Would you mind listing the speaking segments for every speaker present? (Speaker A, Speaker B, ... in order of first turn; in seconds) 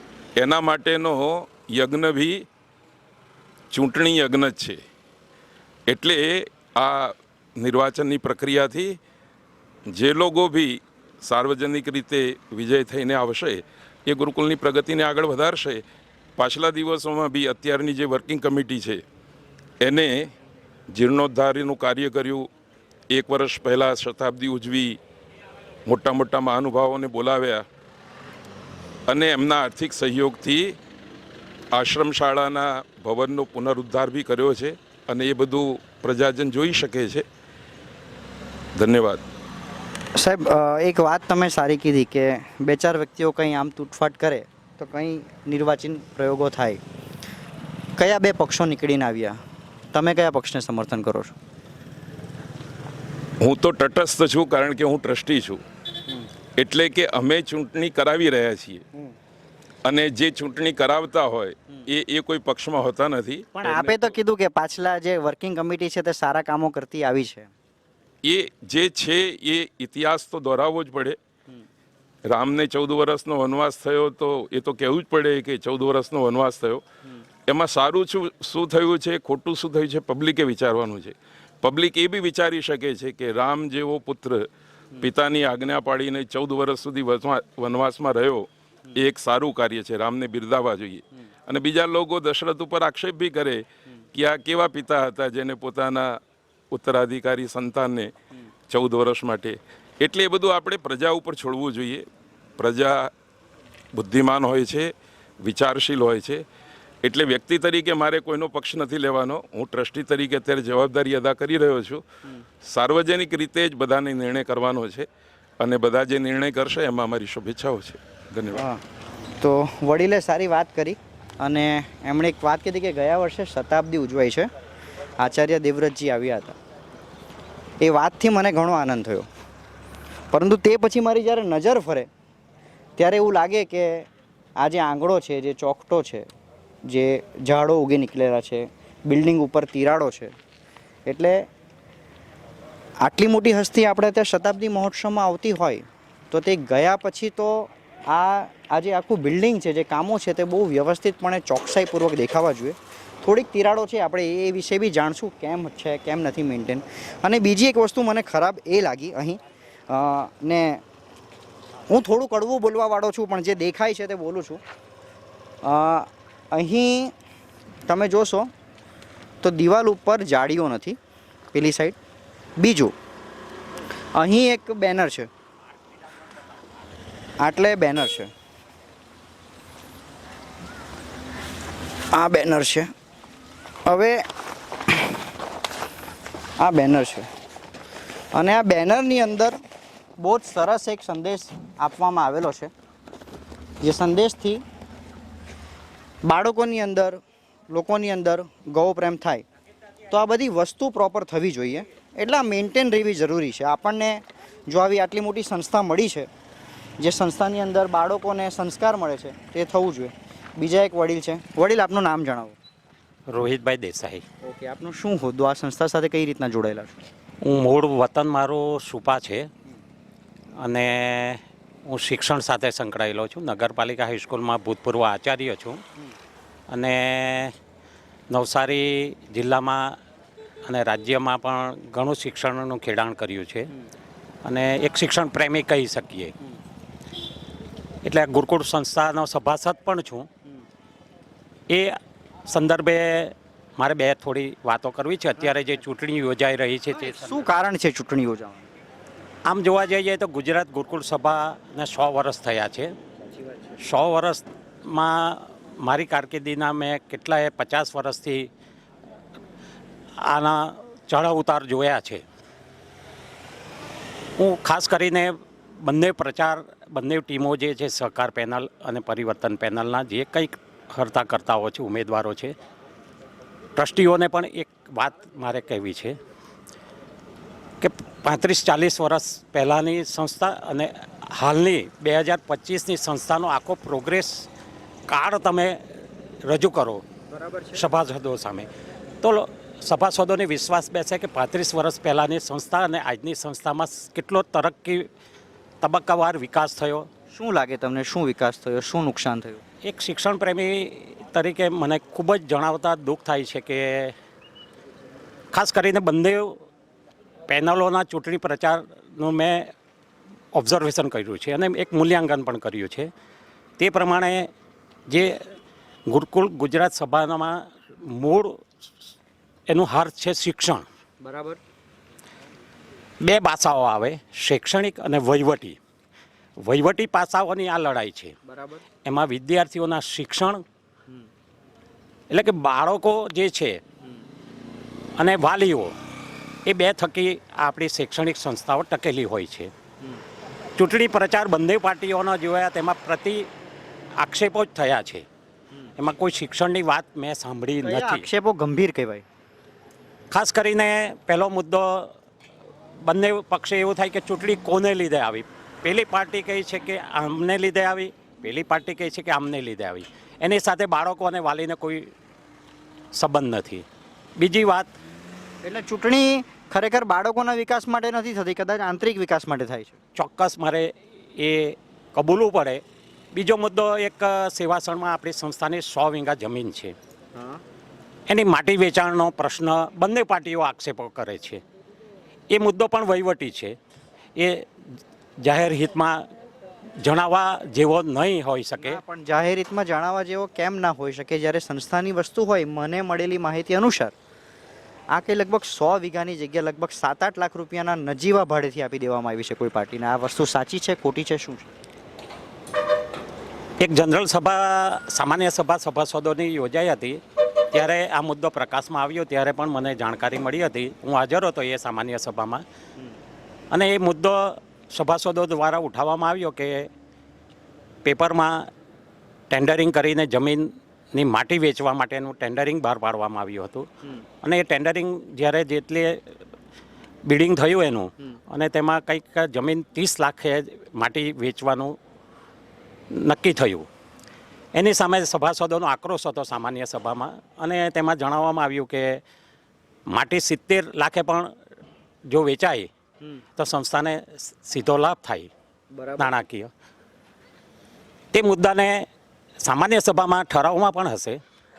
Speaker A: 0.4-2.4, 3.7-4.8, 5.9-9.0, 9.9-15.8, 16.4-19.0, 19.8-20.3, 20.9-22.5, 23.1-25.0, 25.9-27.6, 29.1-30.8, 31.7-37.2, 38.7-39.2, 53.4-55.6, 56.6-58.9, 59.9-64.1, 68.2-71.2, 72.3-76.8, 77.5-84.5, 85.0-96.2, 96.7-98.1, 98.7-102.0, 102.6-103.1, 103.9-104.9, 105.4-106.4, 107.0-112.0, 112.6-115.1, 115.6-118.7
Speaker B: 40.1-46.8, 48.0-49.4, 49.9-51.4, 63.5-67.5, 118.5-118.8, 119.4-124.5, 125.2-126.6, 127.8-129.3, 130.3-132.1, 133.0-136.3, 136.8-140.3, 141.1-141.5, 143.0-160.8, 161.9-164.6, 165.6-167.1, 167.9-168.5, 169.4-171.0, 171.5-172.0, 172.6-172.9, 174.1-175.3, 177.4-178.3, 182.1-182.9, 183.8-184.2, 184.9-185.2, 186.6-187.3, 188.3-189.6, 190.2-192.7, 193.8-194.6, 196.2-199.4, 200.1-206.3, 207.0-212.6, 214.4-217.0, 246.9-248.7, 253.3-253.8, 287.3-287.8, 297.3-299.6, 321.2-321.6, 328.4-328.8, 347.8-349.2, 365.6-370.0, 377.4-377.6, 388.8-394.1, 395.1-401.7, 445.9-446.3
Speaker C: 213.3-214.2, 217.4-219.5, 220.6-225.8, 226.7-227.5, 228.3-230.0, 230.6-233.7, 234.4-236.3, 238.0-240.3, 241.7-247.5, 249.4-252.9, 253.8-258.5, 260.2-262.2, 264.4-272.5, 273.8-276.1, 277.8-284.5, 285.1-285.8, 286.4-287.0, 287.7-288.7, 289.2-295.1, 295.8-297.1, 299.8-304.1, 305.5-306.6, 307.5-309.7, 310.5-313.1, 313.8-314.5, 315.1-315.4, 316.1-318.6, 319.7-320.8, 323.2-325.8, 326.6-328.4, 329.0-330.6, 332.3-333.8, 335.2-335.9, 336.6-339.7, 340.8-343.5, 344.2-345.2, 346.0-348.3, 350.3-352.1, 353.0-362.1, 363.1-363.8, 364.4-364.9, 370.1-376.9, 378.3-381.6, 382.5-383.8, 384.4-384.7, 385.4-386.3, 387.0-389.0, 403.8-412.6, 413.7-416.9, 418.0-418.7, 419.5-423.9, 424.4-426.2, 427.2-432.0, 433.1-433.9, 434.7-439.2, 440.1-441.5, 442.2-442.9, 443.6-445.5, 446.2-446.7, 448.3-449.1, 449.6-451.4